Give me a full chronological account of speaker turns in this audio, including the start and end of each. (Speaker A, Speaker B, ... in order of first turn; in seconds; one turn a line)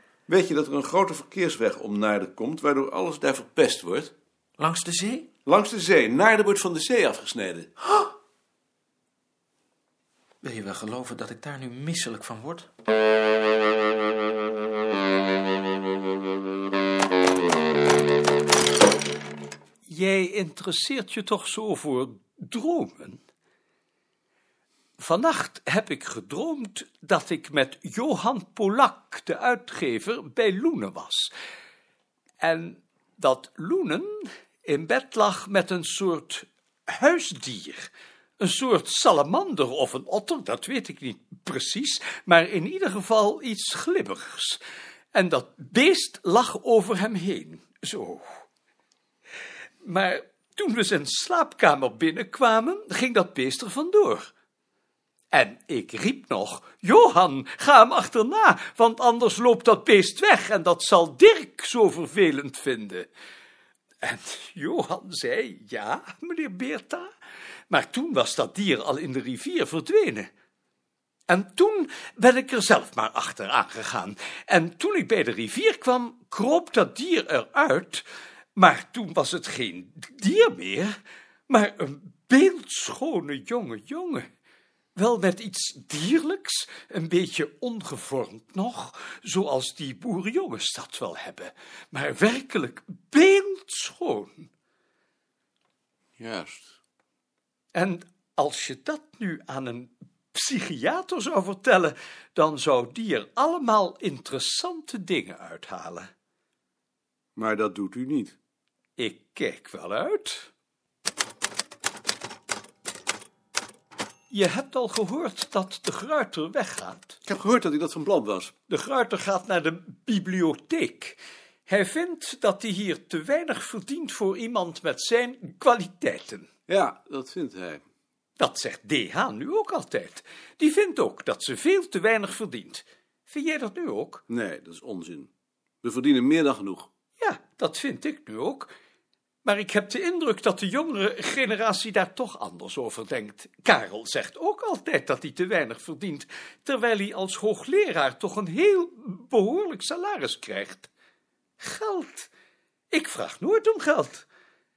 Speaker A: 0.3-4.1
Speaker B: 4.6-5.3
Speaker A: 5.5-7.7
Speaker B: 10.4-12.7
Speaker C: 19.9-23.2
Speaker C: 25.0-31.3
Speaker C: 32.4-44.6
Speaker C: 45.1-48.4
Speaker C: 49.8-54.3
Speaker C: 55.3-63.1
Speaker C: 64.0-67.1
Speaker C: 67.7-70.3
Speaker C: 71.3-78.0
Speaker C: 78.5-81.0
Speaker C: 81.5-84.3
Speaker C: 84.9-94.5
Speaker A: 96.2-96.7
Speaker C: 97.7-106.1
Speaker A: 107.4-108.3
Speaker C: 109.0-110.5
Speaker C: 114.3-117.2
Speaker A: 117.2-118.5
Speaker C: 118.7-126.5
Speaker A: 126.7-127.8
Speaker C: 128.4-134.2
Speaker A: 134.3-135.3
Speaker A: 135.8-136.9
Speaker C: 137.2-138.7
Speaker C: 139.4-150.9
Speaker C: 151.6-152.3
Speaker C: 152.9-154.2